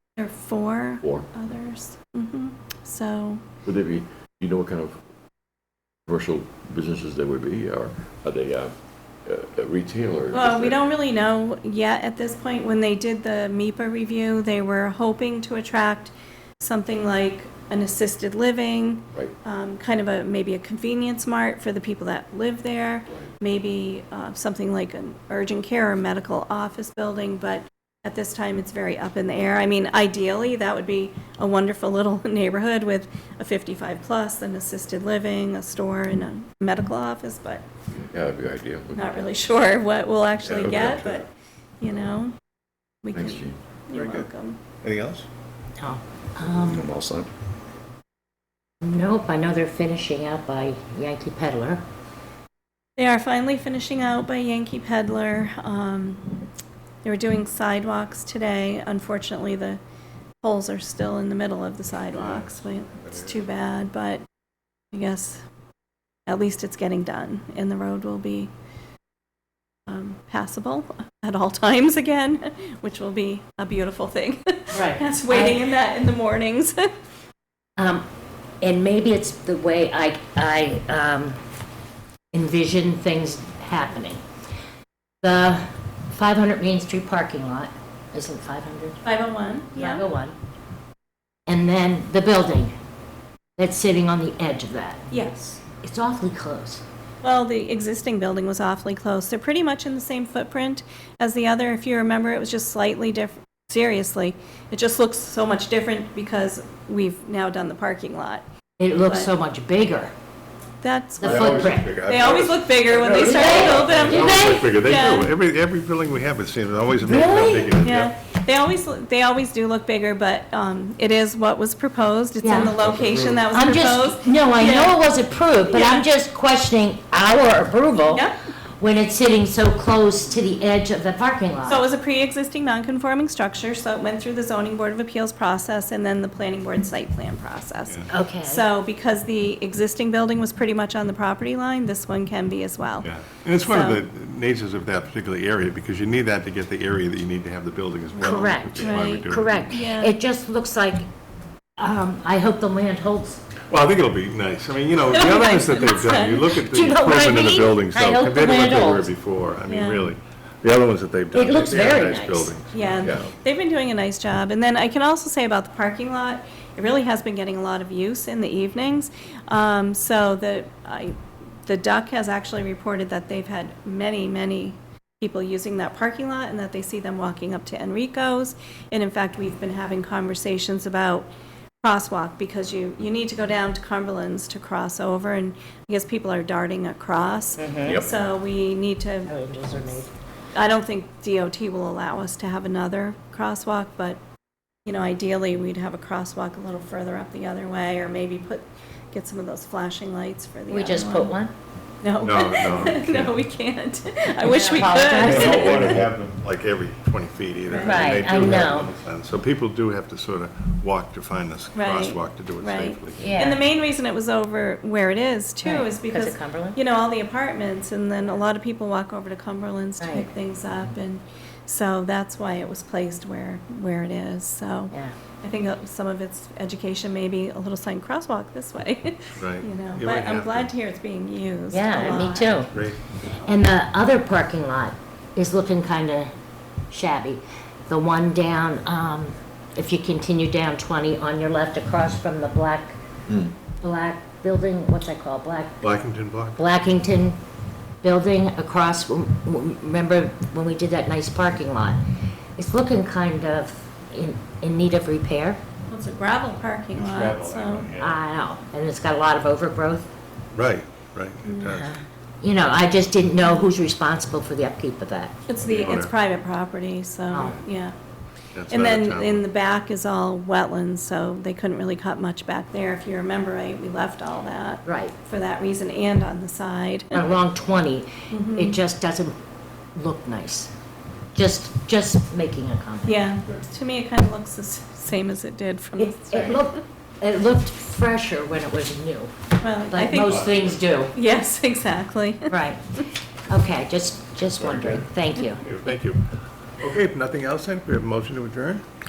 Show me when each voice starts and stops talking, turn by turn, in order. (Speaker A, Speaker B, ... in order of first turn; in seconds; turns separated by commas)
Speaker A: 0.2-3.4, Speaker B: 1.0-1.3, Speaker B: 3.6-5.0, Speaker B: 6.1-8.7, Speaker B: 9.2-10.8, Speaker A: 10.3-37.6, Speaker B: 38.0-39.2, Speaker A: 38.9-42.4, Speaker B: 40.4-41.2, Speaker A: 43.0-44.6, Speaker B: 43.1-44.2, Speaker C: 44.8-45.3, Speaker D: 45.8-46.9, Speaker B: 46.4-47.3, Speaker D: 48.8-51.8, Speaker A: 53.0-56.4, Speaker A: 57.0-59.8, Speaker A: 60.4-64.2, Speaker C: 62.1-63.4, Speaker A: 64.9-65.4, Speaker A: 66.3-68.5, Speaker A: 69.9-76.8, Speaker D: 74.7-75.6, Speaker D: 77.8-78.0, Speaker D: 78.6-81.4, Speaker D: 82.3-84.2, Speaker D: 85.2-89.0, Speaker A: 89.0-90.0, Speaker D: 89.7-90.3, Speaker D: 91.5-92.7, Speaker D: 93.6-95.1, Speaker A: 95.1-95.6, Speaker D: 95.8-96.8, Speaker A: 97.2-108.4, Speaker D: 108.8-110.1, Speaker A: 109.0-109.3, Speaker A: 110.8-115.3, Speaker D: 111.2-112.0, Speaker C: 111.2-118.1, Speaker D: 113.0-114.7, Speaker D: 117.0-117.8, Speaker A: 117.8-125.0, Speaker D: 122.4-122.8, Speaker C: 122.8-123.3, Speaker D: 123.5-131.8, Speaker A: 125.7-126.0, Speaker A: 128.1-128.4, Speaker A: 131.7-143.1, Speaker D: 138.1-138.7, Speaker C: 143.0-149.7, Speaker A: 143.6-144.0, Speaker D: 148.2-151.1, Speaker A: 148.8-150.1, Speaker D: 151.8-153.4, Speaker C: 153.7-163.1, Speaker A: 155.1-156.4, Speaker D: 156.7-159.1, Speaker A: 159.7-160.1, Speaker D: 161.3-162.5, Speaker A: 162.7-181.3, Speaker B: 163.0-163.3, Speaker A: 181.8-189.3, Speaker D: 187.6-188.0, Speaker B: 187.8-188.1, Speaker D: 189.3-190.1, Speaker A: 190.5-194.2, Speaker A: 194.8-201.4, Speaker D: 200.7-201.5, Speaker A: 202.0-206.0, Speaker C: 202.2-203.3, Speaker D: 204.4-206.1, Speaker C: 205.1-213.2, Speaker A: 207.7-208.3, Speaker D: 207.7-208.9, Speaker A: 211.7-232.7, Speaker D: 213.2-213.6, Speaker D: 215.6-216.8, Speaker D: 220.0-220.3, Speaker C: 229.3-230.7, Speaker D: 231.7-236.3, Speaker C: 232.7-233.0, Speaker D: 236.9-243.0, Speaker D: 243.8-245.9, Speaker C: 245.8-246.6, Speaker D: 246.5-247.4, Speaker D: 248.0-252.0, Speaker D: 252.6-255.6, Speaker A: 255.9-257.9, Speaker C: 256.9-258.2, Speaker D: 258.0-260.1, Speaker C: 260.5-262.0, Speaker D: 261.7-265.4, Speaker A: 265.5-267.9, Speaker C: 265.6-266.1, Speaker D: 267.3-267.6, Speaker C: 268.5-269.4, Speaker A: 268.7-277.2, Speaker D: 274.9-275.1, Speaker D: 277.1-279.3, Speaker A: 278.3-278.8, Speaker D: 279.9-280.7, Speaker D: 281.3-283.2, Speaker A: 283.1-286.8, Speaker D: 285.9-289.3, Speaker A: 289.6-290.5, Speaker D: 289.9-291.1, Speaker C: 290.1-290.8, Speaker A: 291.1-292.6, Speaker D: 292.5-295.6, Speaker C: 294.6-294.9, Speaker C: 295.5-298.8